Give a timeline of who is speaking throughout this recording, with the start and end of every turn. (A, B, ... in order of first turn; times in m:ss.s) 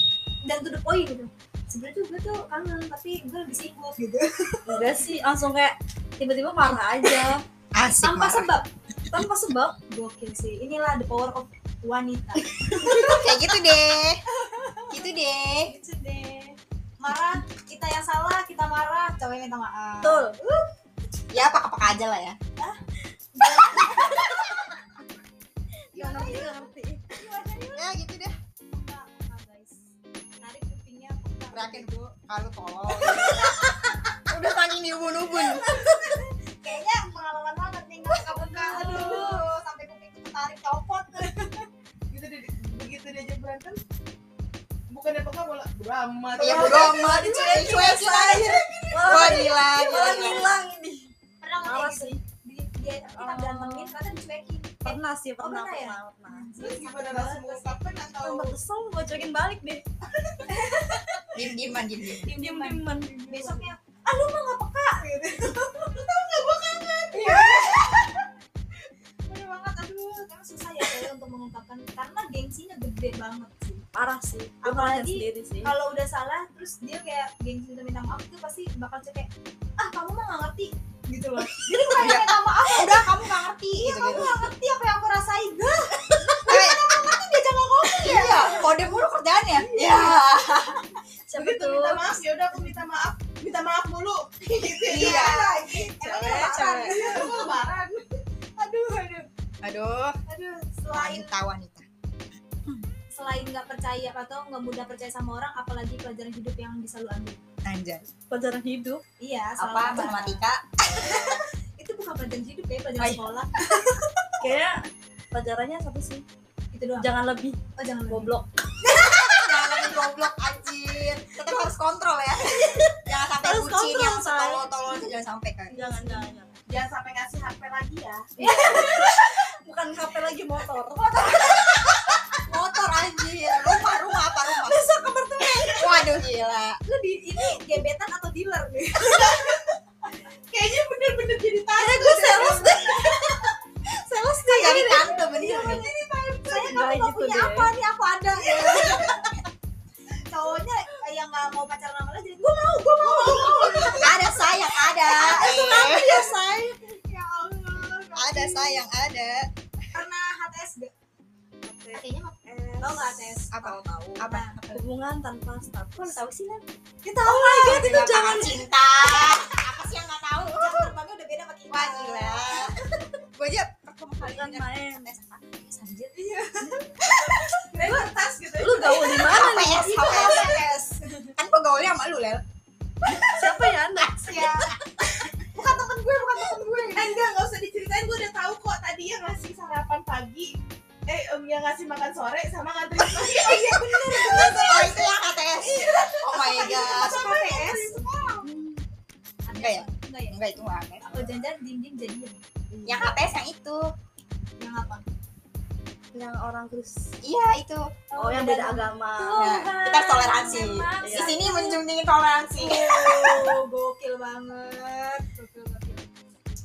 0:00.4-0:04.9 A
0:04.7-0:07.4 B
0:07.7-0:08.5 C
0:08.0-0:08.7 A
0:09.1-0:09.8 B
0:09.8-0:13.3 A
0:12.7-0:14.2 C
0:14.3-0:15.0 A
0:14.9-0:15.7 C
0:15.6-0:20.6 A
0:20.0-0:20.4 B
0:21.3-0:22.4 C
0:23.3-0:24.5 A
0:25.9-0:27.0 B
0:25.9-0:27.9 A
0:27.8-0:28.3 C
0:28.7-0:29.8 A
0:30.4-0:31.9 A
0:31.5-0:33.7 C
0:33.0-0:33.6 A
0:34.2-0:35.9 C
0:35.4-0:41.6 A
0:38.1-0:39.0 C
0:38.6-0:39.4 D
0:42.1-0:43.8 D
0:44.9-0:48.8 D
0:46.4-0:50.5 C
0:46.4-0:47.6 A
0:48.7-0:49.4 A
0:48.9-0:51.1 B
0:51.4-0:57.8 A
0:51.6-0:52.2 B
0:53.2-0:53.9 B
0:54.8-0:56.5 B
0:56.6-0:58.6 D
0:58.2-0:59.8 B
1:00.1-1:00.6 D
1:00.5-1:01.2 A
1:01.3-1:02.3 C
1:02.2-1:06.0 A
1:02.3-1:03.7 B
1:06.0-1:08.1 D
1:07.1-1:08.3 A
1:09.3-1:13.8 A
1:13.9-1:15.7 B
1:14.6-1:23.2 A
1:22.0-1:24.4 C
1:23.8-1:28.9 A
1:26.4-1:27.1 C
1:28.0-1:30.8 C
1:29.6-1:30.2 A
1:31.3-1:32.2 B
1:31.3-1:38.1 D
1:34.9-1:35.5 C
1:34.9-1:37.6 A
1:36.0-1:37.2 B
1:38.6-1:39.2 A
1:39.6-1:40.2 C
1:40.3-1:41.3 A
1:40.9-1:41.8 C
1:43.1-1:47.4 A
1:47.6-1:48.0 C
1:48.3-1:49.0 B
1:49.2-1:50.4 A
1:49.6-1:51.4 C
1:50.9-1:53.6 A
1:53.0-1:53.9 C
1:54.4-1:56.2 B
1:56.7-1:57.1 A
1:57.0-1:58.5 B
1:57.8-1:58.3 A
1:58.8-2:05.7 C
2:03.3-2:04.7 B
2:05.7-2:06.3 A
2:05.7-2:06.6 B
2:06.7-2:08.3 D
2:08.4-2:09.2 A
2:08.4-2:11.4 B
2:11.0-2:11.7 A
2:12.5-2:14.9 C
2:14.5-2:16.0 B
2:15.7-2:16.8 C
2:16.8-2:19.5 A
2:19.0-2:19.6 D
2:20.5-2:23.5 D
2:21.8-2:23.5 A
2:21.9-2:22.7 B
2:24.0-2:29.2 A
2:24.4-2:25.9 C
2:26.5-2:27.7 B
2:28.6-2:29.2 C
2:30.3-2:34.2 A
2:33.0-2:34.2 D
2:34.0-2:36.3 C
2:35.0-2:38.8 A
2:35.4-2:36.3 B
2:38.2-2:39.5 C
2:39.9-2:40.9 A
2:41.6-2:46.2 B
2:41.9-2:43.5 A
2:43.5-2:44.8 C
2:44.2-2:44.6 A
2:46.0-2:47.8 A
2:47.2-2:48.6 B
2:47.5-2:50.9 C
2:50.4-2:52.8 A
2:51.7-2:52.8 C
2:53.3-2:55.9 C
2:54.2-2:55.1 B
2:55.8-2:58.1 A
2:57.1-2:57.3 C
2:57.7-2:59.4 D
2:58.6-3:00.0 B
2:59.2-3:00.8 C
2:59.5-3:01.3 A
3:01.3-3:02.4 C
3:03.2-3:04.5 B
3:04.0-3:04.8 C
3:04.2-3:04.7 A
3:05.5-3:07.2 A
3:06.9-3:10.5 D
3:11.1-3:14.9 D
3:13.3-3:15.0 A
3:14.3-3:18.0 C
3:15.6-3:17.2 D
3:16.4-3:18.4 A
3:18.4-3:18.8 B
3:19.4-3:20.3 A
3:19.5-3:21.4 C
3:21.0-3:22.4 A
3:22.7-3:23.2 B
3:22.8-3:23.9 C
3:24.6-3:25.0 A
3:26.1-3:27.2 B
3:27.2-3:27.9 C
3:28.1-3:31.8 A
3:28.2-3:29.6 B
3:29.3-3:33.5 C
3:30.5-3:31.4 B
3:32.6-3:36.1 A